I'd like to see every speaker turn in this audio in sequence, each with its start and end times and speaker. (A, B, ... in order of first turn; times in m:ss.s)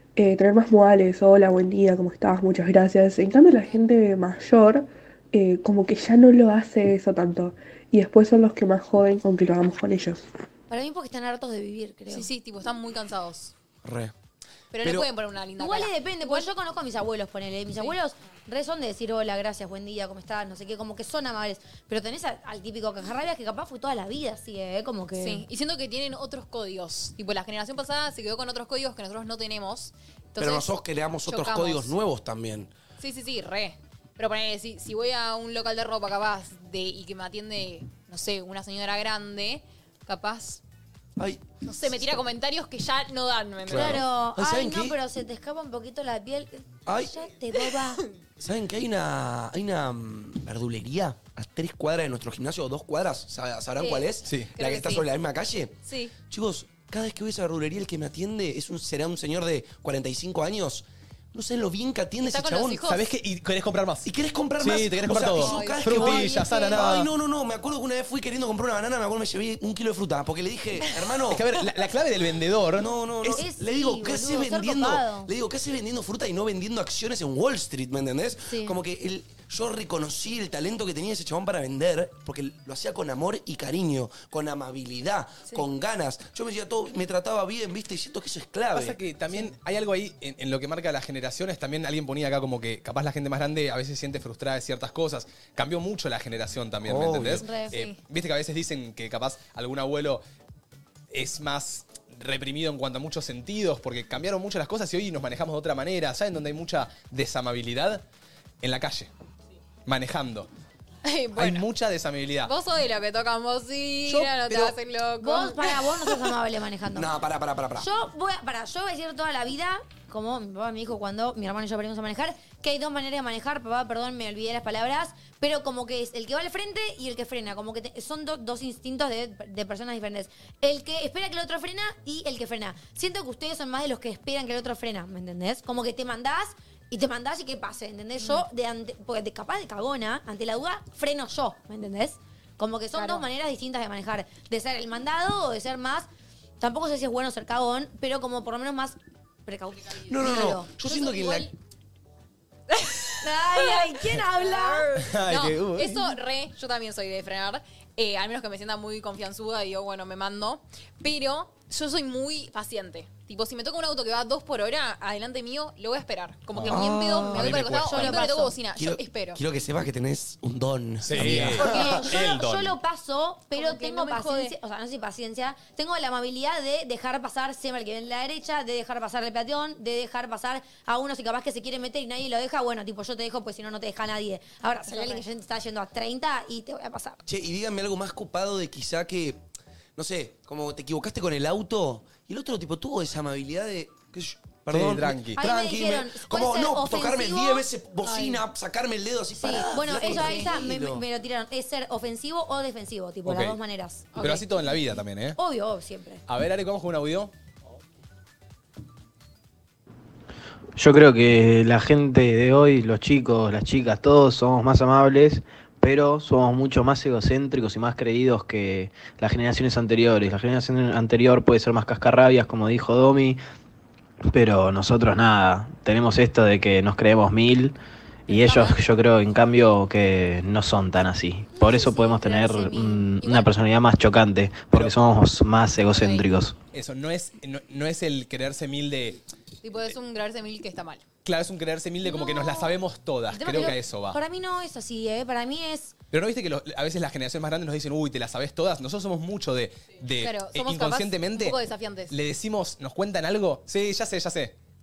0:00.2-0:10.2 A
0:10.7-0:12.3 B
0:12.1-0:13.5 C
0:13.8-0:14.1 D
0:14.7-0:16.5 C
0:14.8-0:15.1 D
0:15.6-0:25.4 B
0:25.2-0:30.7 C
0:30.4-0:32.7 D
0:31.3-0:31.9 C
0:33.0-0:40.6 C
0:41.2-0:42.2 D
0:41.6-0:44.1 C
0:43.7-0:45.0 D
0:43.7-0:48.0 B
0:46.9-0:47.2 D
0:47.6-0:48.1 C
0:48.4-0:55.8 D
0:54.2-0:54.5 E
0:54.6-0:55.1 C
0:55.8-0:56.1 C
0:56.3-1:02.9 D
1:02.2-1:03.1 C
1:02.8-1:07.1 E
1:04.0-1:11.4 D
1:05.4-1:06.7 C
1:06.2-1:06.8 B
1:11.3-1:13.4 E
1:12.8-1:29.0 D
1:13.4-1:15.3 B
1:18.5-1:18.8 B
1:28.7-1:40.2 E
1:36.8-1:37.4 D
1:37.4-1:37.7 B
1:37.7-1:38.0 C
1:41.1-1:48.0 E
1:48.6-1:49.1 E
1:49.9-1:50.5 E
1:51.0-1:51.7 C
1:51.4-1:52.5 E
1:52.4-1:56.3 C
1:54.0-1:54.7 E
1:55.2-1:57.1 B
1:57.0-1:57.9 D
1:57.8-2:26.1 B
2:18.2-2:18.4 C
2:22.9-2:23.3 C
2:26.6-2:31.5 B
2:30.1-2:31.5 D
2:30.9-2:31.4 C
2:32.7-2:49.4 C
2:33.2-2:35.0 B
2:35.0-2:36.1 E
2:46.5-2:46.8 E
2:46.6-2:47.9 D
2:46.8-2:48.6 B
2:47.4-2:48.0 E
2:48.7-2:52.0 D
2:51.0-2:52.8 E
2:51.5-3:07.2 B
2:53.6-2:54.6 C
3:04.9-3:05.2 C
3:07.2-3:09.4 D
3:10.0-3:21.0 D
3:14.7-3:15.4 E
3:15.4-3:17.7 B
3:18.0-3:18.4 C
3:19.4-3:24.4 B
3:20.0-3:20.5 C
3:23.2-3:23.6 E
3:24.2-3:24.5 C
3:24.2-3:25.4 E
3:25.4-3:26.2 B
3:26.3-3:27.3 E
3:30.8-3:43.4 F
3:44.3-3:47.8 F
3:48.3-3:48.8 C
3:48.3-3:56.6 F
3:51.6-3:53.5 B
3:55.9-3:56.3 C
3:56.7-3:59.2 E
3:59.6-4:01.0 C
4:01.2-4:04.2 E
4:02.0-4:02.7 B
4:03.3-4:05.9 B
4:03.5-4:03.8 C
4:06.1-4:11.6 E
4:10.2-4:12.2 C
4:12.1-4:14.6 E